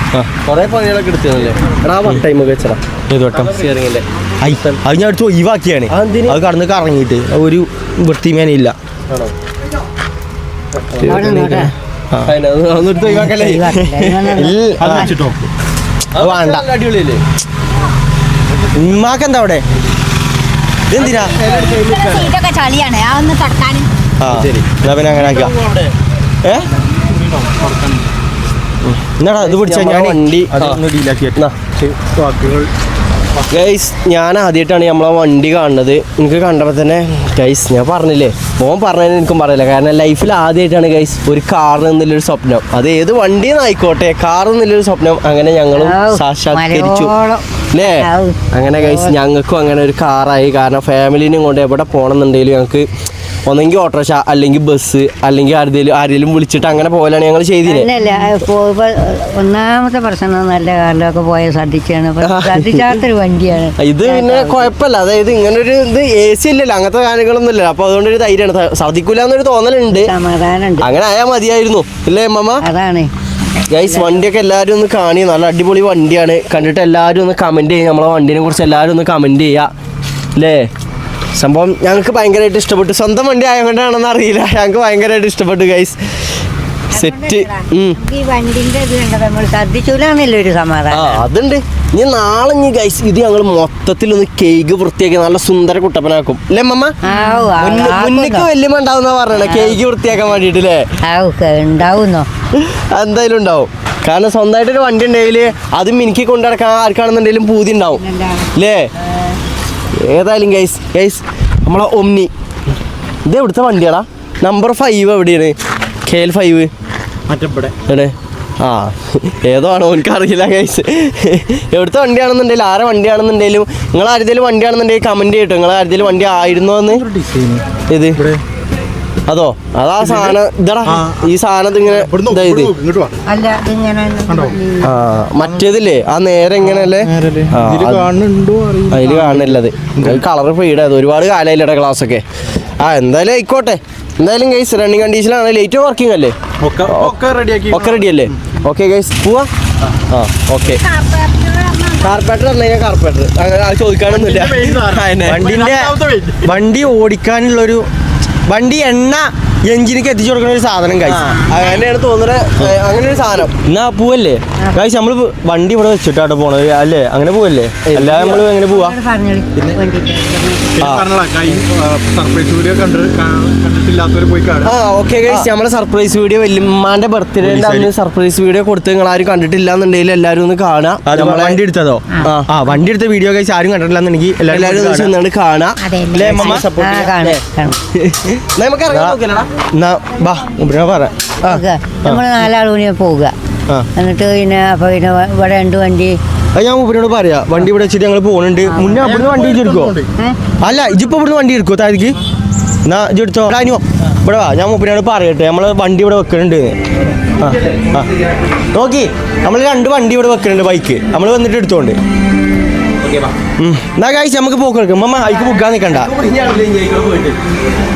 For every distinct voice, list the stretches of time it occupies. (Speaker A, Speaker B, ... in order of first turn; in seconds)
Speaker A: 0.4-2.8, 3.3-4.0, 5.9-6.4, 9.1-9.3, 10.7-11.7, 12.2-14.5, 16.1-17.2, 20.9-22.3, 24.3-24.7, 29.4-30.8, 33.5-47.1, 47.7-52.9, 53.5-57.9, 62.2-63.0, 63.8-70.1, 70.8-72.6, 73.7-79.7, 80.3-80.7, 81.3-86.1, 86.9-88.0, 90.9-97.0, 97.5-100.8, 102.5-108.0, 108.5-108.9, 110.0-112.3, 113.2-116.7, 117.9-127.0, 127.9-128.2, 129.3-132.7, 134.8-138.1, 138.9-142.2, 142.8-147.1, 147.7-149.5, 150.1-150.8, 152.0-155.4, 161.0-163.6, 167.8-168.4, 174.6-181.6, 182.2-182.5, 184.5-187.4, 187.9-189.5, 207.3-208.4, 213.0-213.3, 215.8-217.4
Speaker B: 3.1-3.6, 4.4-8.8, 11.0-12.3, 14.3-15.1, 16.1-16.6, 18.7-19.6, 20.9-21.4, 24.2-25.5, 26.4-26.7, 28.8-31.4, 155.2-157.8, 158.4-161.3, 163.7-169.0, 170.8-171.1, 177.4-177.9, 181.0-185.1, 186.1-186.6, 188.9-189.2, 189.7-192.2, 196.5-199.9, 200.6-202.2, 202.8-206.8, 207.4-208.1, 208.7-212.0, 213.6-216.1
Speaker C: 11.0-11.7, 13.0-15.1, 45.8-49.1, 57.6-64.7, 69.9-70.9, 72.6-73.1, 73.8-74.2, 86.9-91.2, 97.0-98.5, 99.4-99.8, 101.0-102.3, 107.9-108.5, 133.2-134.9, 168.6-170.8, 186.4-187.8, 191.4-193.3, 193.9-196.2, 198.7-199.1
Speaker D: 14.8-15.5, 18.5-18.9, 25.1-25.9, 26.6-28.1, 31.8-32.7, 33.3-33.7, 117.3-117.7, 126.9-128.4, 130.0-133.1, 134.3-134.5, 135.4-135.8, 136.6-140.2, 146.6-148.3, 154.1-156.6, 170.8-174.8, 198.8-200.1
Speaker E: 21.0-23.9, 97.1-97.5, 150.6-152.2, 185.8-186.6